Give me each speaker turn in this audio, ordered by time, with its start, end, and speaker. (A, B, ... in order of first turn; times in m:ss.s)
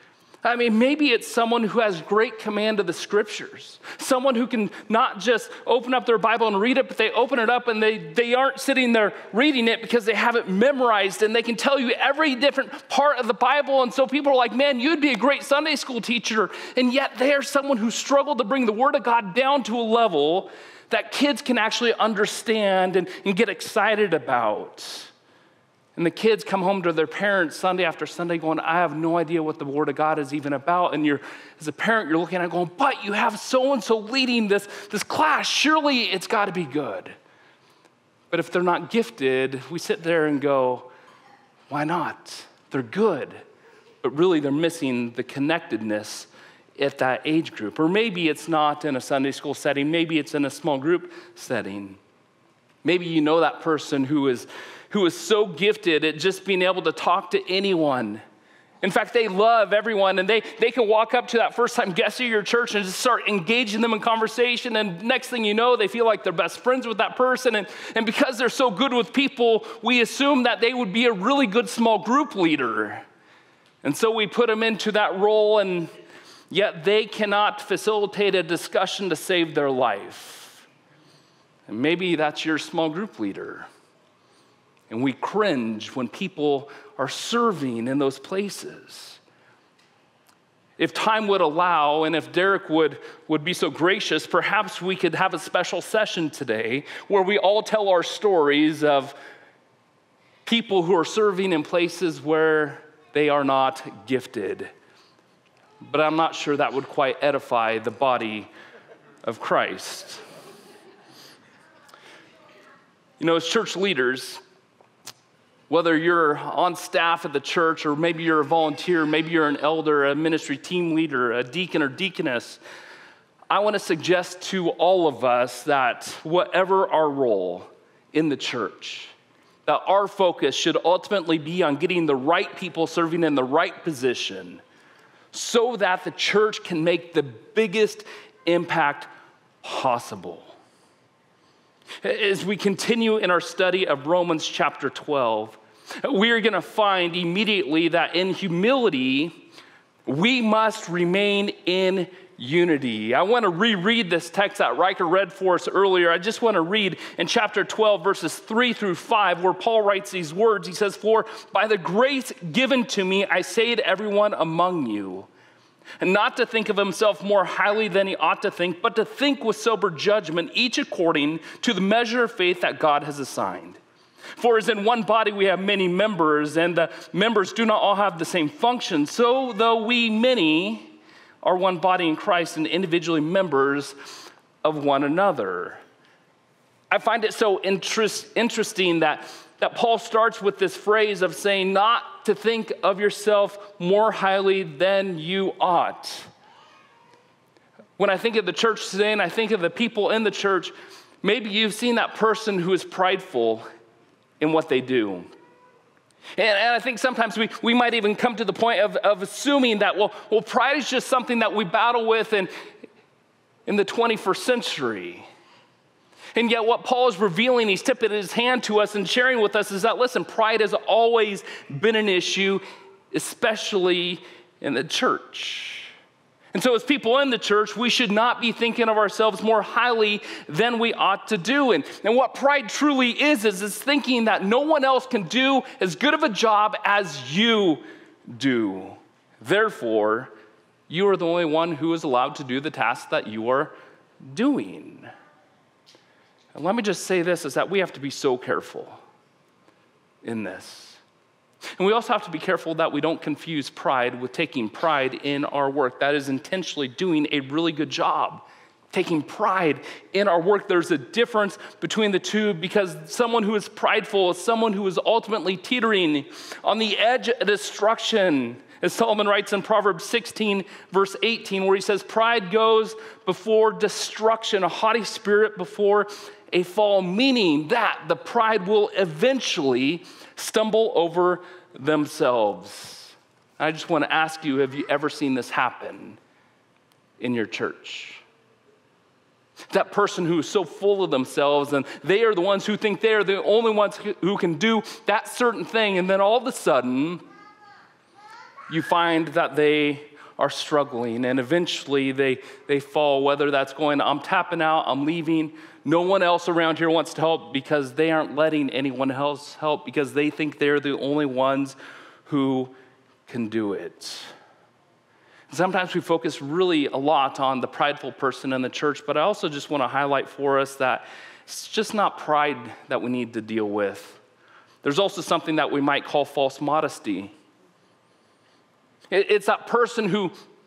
0:00.4-0:25.1 A
0:26.0-0:37.2 A
0:38.3-0:40.9 A
0:41.7-0:43.4 A
0:44.0-0:52.0 A
0:52.8-0:58.2 A
0:58.8-1:13.0 A
1:13.8-1:15.9 A
1:16.5-1:20.7 A
1:21.7-1:23.7 A
1:24.9-1:29.2 A
1:30.8-1:39.2 A
1:40.4-1:44.7 A
1:45.8-1:48.5 A
1:49.2-1:50.2 A
1:53.2-1:54.4 A
1:55.7-2:02.6 A
2:03.5-2:09.1 A
2:09.7-2:14.6 A
2:15.3-2:19.1 A
2:19.6-2:20.6 A
2:22.0-2:29.4 A
2:30.1-2:45.3 A
2:46.0-2:53.8 A
2:54.4-3:05.8 A
3:06.9-3:16.3 A
3:18.0-3:23.6 A
3:24.4-3:25.3 A
3:26.4-3:32.5 A
3:33.7-3:35.3 A
3:36.4-3:45.9 A
3:46.5-4:00.3 A
4:00.9-4:05.1 A
4:06.5-4:09.0 A
4:10.2-4:11.0 A
4:11.8-4:46.2 A
4:47.2-4:48.2 A
4:49.7-4:57.2 A
4:58.7-5:12.7 A
5:13.3-5:14.3 A
5:15.5-5:24.2 A
5:24.8-5:27.3 A
5:29.1-5:30.3 A